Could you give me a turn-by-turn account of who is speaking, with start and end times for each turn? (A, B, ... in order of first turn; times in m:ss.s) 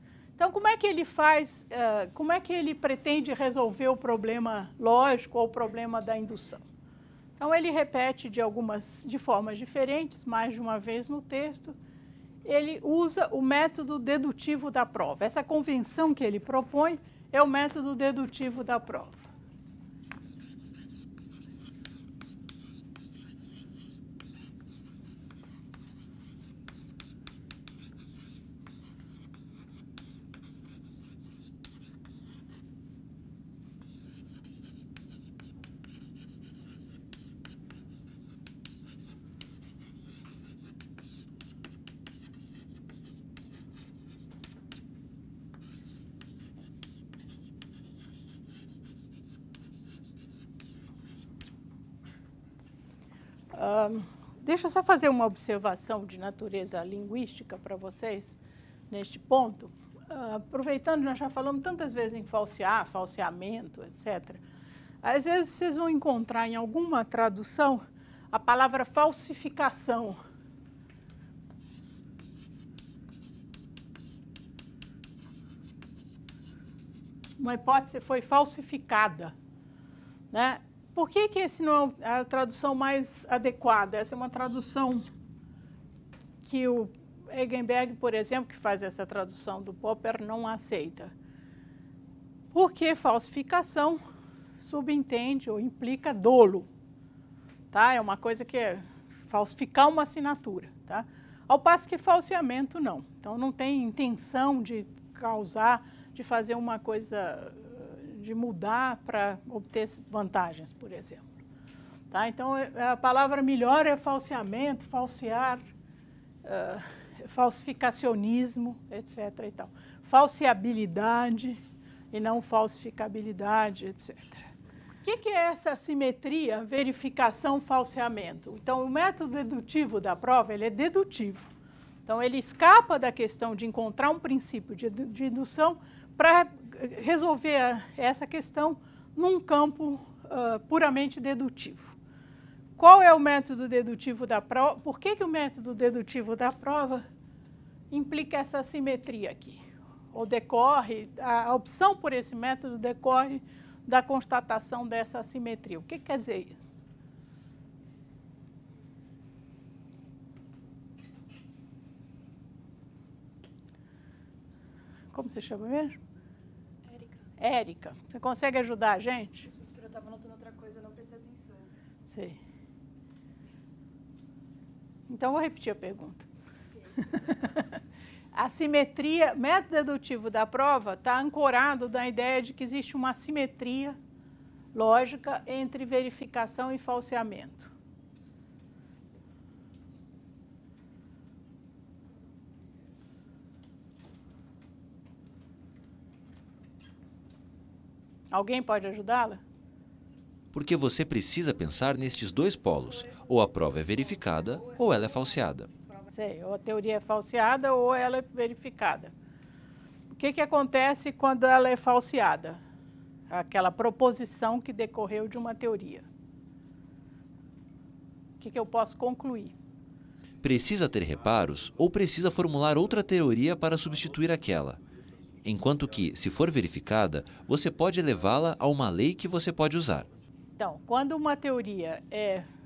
0:00.4-0:06.6 A
0:07.4-0:11.8 A
0:12.4-0:19.3 A
0:53.5-0:58.4 A
0:58.9-1:04.4 A
1:05.0-1:10.2 A
1:17.4-1:19.4 A
1:20.3-1:25.1 A
1:26.4-1:31.1 A
1:32.5-1:34.0 A
1:34.6-1:36.7 A
1:37.7-1:51.3 A
1:52.1-1:55.6 A
1:56.4-2:01.6 A
2:02.1-2:04.5 A
2:05.0-2:11.5 A
2:12.1-2:22.0 A
2:22.8-2:27.0 A
2:27.9-2:36.6 A
2:45.1-2:46.0 A
2:46.9-2:47.2 B
2:47.4-2:49.5 A
2:49.5-2:51.7 B
2:52.1-2:52.4 A
2:55.1-2:56.3 A
2:57.0-2:57.7 A
2:58.3-3:04.0 A
3:04.7-3:07.7 A
3:18.3-3:19.4 A
3:20.5-3:25.7 C
3:26.1-3:29.1 A
3:30.1-3:32.6 A
3:33.3-3:36.1 A
3:38.4-3:39.6 A
3:40.4-3:44.8 C
3:45.4-3:50.1 C
3:50.6-3:52.5 A